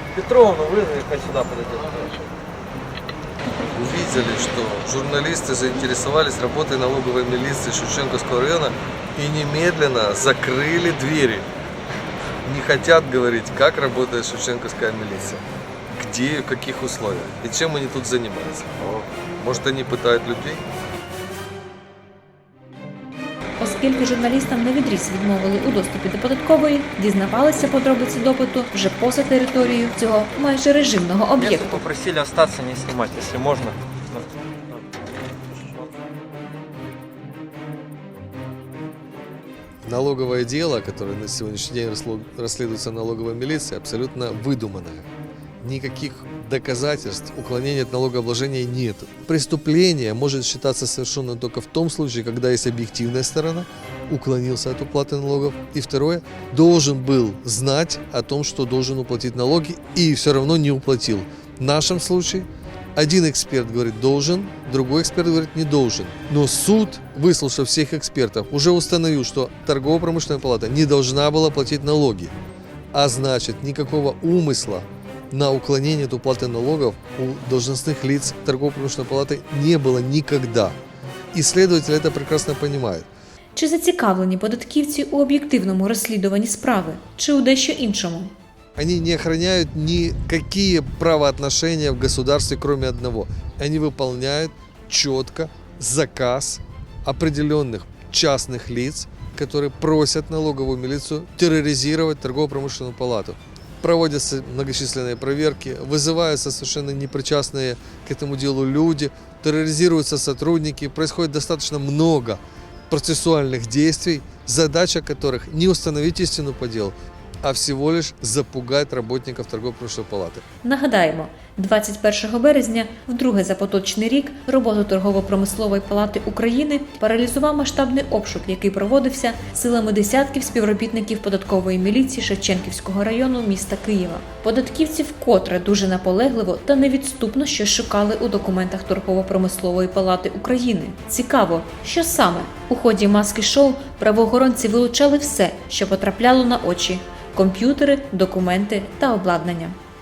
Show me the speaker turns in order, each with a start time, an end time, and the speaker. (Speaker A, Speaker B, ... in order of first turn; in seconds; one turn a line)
Speaker A: 0.1-2.2
Speaker B: 3.7-11.5
Speaker B: 12.4-20.6
Speaker C: 23.6-31.8
Speaker A: 31.4-34.3
Speaker B: 39.8-45.1
Speaker B: 45.6-72.3
Speaker B: 72.9-80.8
Speaker B: 81.3-83.1
Speaker C: 83.5-88.3
Speaker B: 88.8-120.4
Speaker C: 120.6-149.8